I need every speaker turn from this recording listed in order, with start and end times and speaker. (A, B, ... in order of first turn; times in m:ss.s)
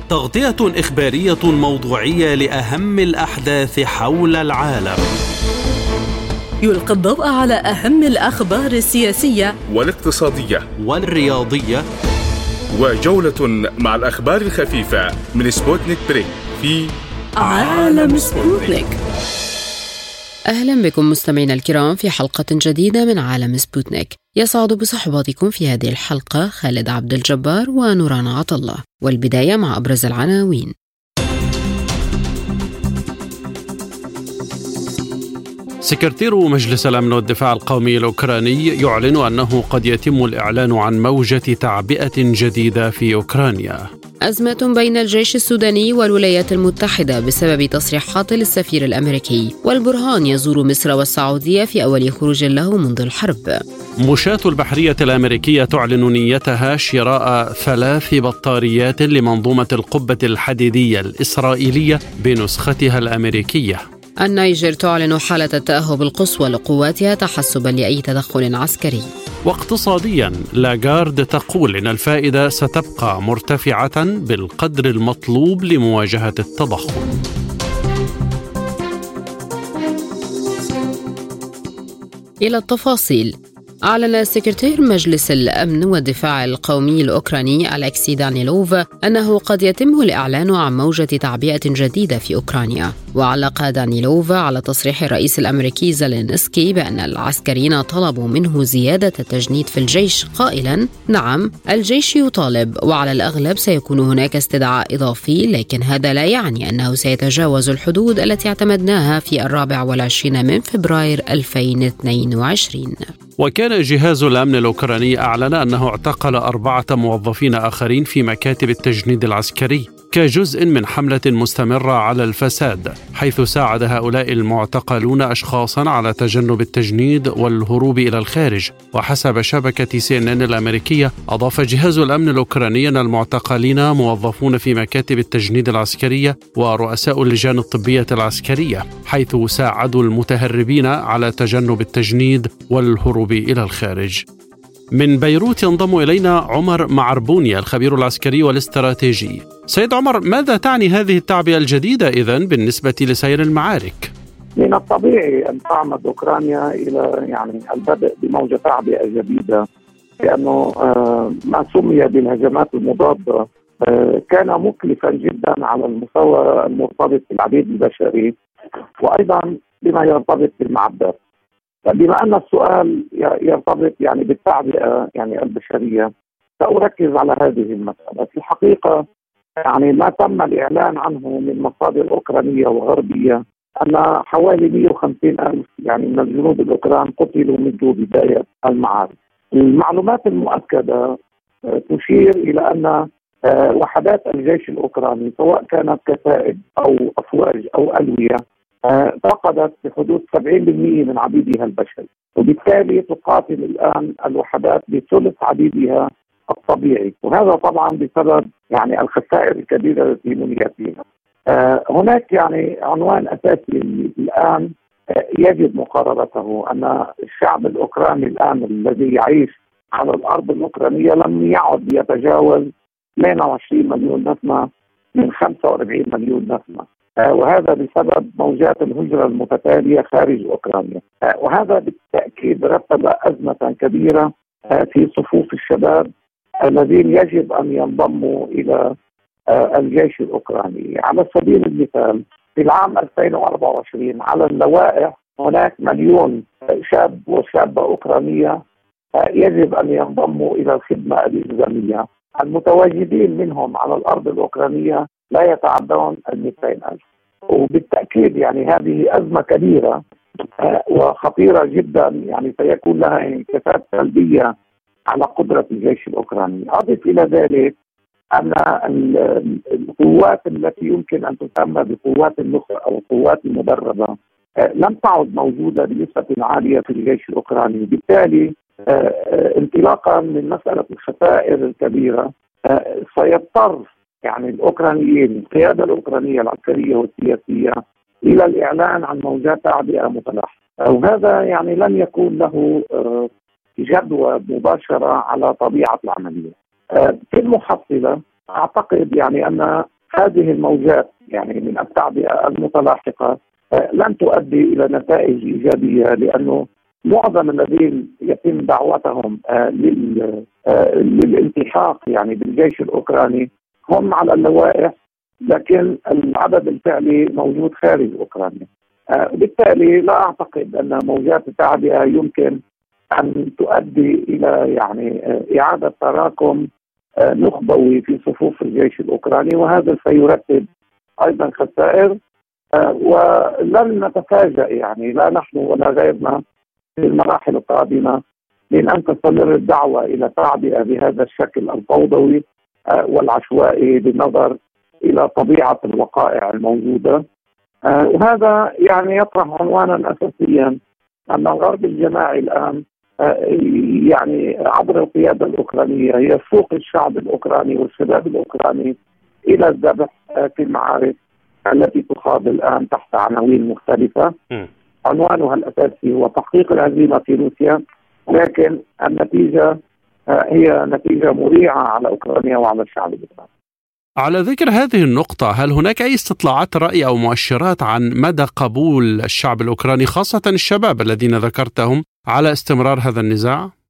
0:00.1-0:05.1 A
0:06.6-0:09.6 B
0:09.7-0:10.7 C
0:10.8-0:11.9 A
0:12.7-0:18.8 C
0:17.4-0:19.0 B
0:20.5-0:30.7 D
0:35.8-0:43.9 A
0:44.3-0:53.6 D
0:54.0-1:03.8 A
1:04.2-1:09.1 D
1:09.5-1:17.2 A
1:22.4-1:53.1 D
1:53.4-2:24.2 A
2:24.9-2:34.1 A
2:34.6-2:39.6 E
2:40.2-2:51.2 E
2:51.9-2:59.0 E
2:59.6-3:11.1 E
3:11.8-3:34.7 E
3:35.4-3:56.1 E
3:56.6-3:58.9 E
3:59.5-4:08.6 E
4:09.2-4:24.5 E
4:25.1-4:27.7 E
4:28.4-4:34.2 E
4:34.8-4:53.3 E
4:53.8-5:15.0 E
5:15.5-5:22.6 E
5:23.2-5:26.6 E
5:27.2-5:30.6 E
5:31.2-5:32.1 E
5:32.8-5:36.4 E
5:37.0-5:38.2 E
5:38.7-5:44.6 E
5:45.1-5:47.2 E
5:47.9-5:50.8 E
5:51.3-5:58.9 E
5:59.5-6:01.2 E
6:01.7-6:04.3 E
6:05.1-6:09.7 E
6:10.3-6:13.5 E
6:14.2-6:23.7 A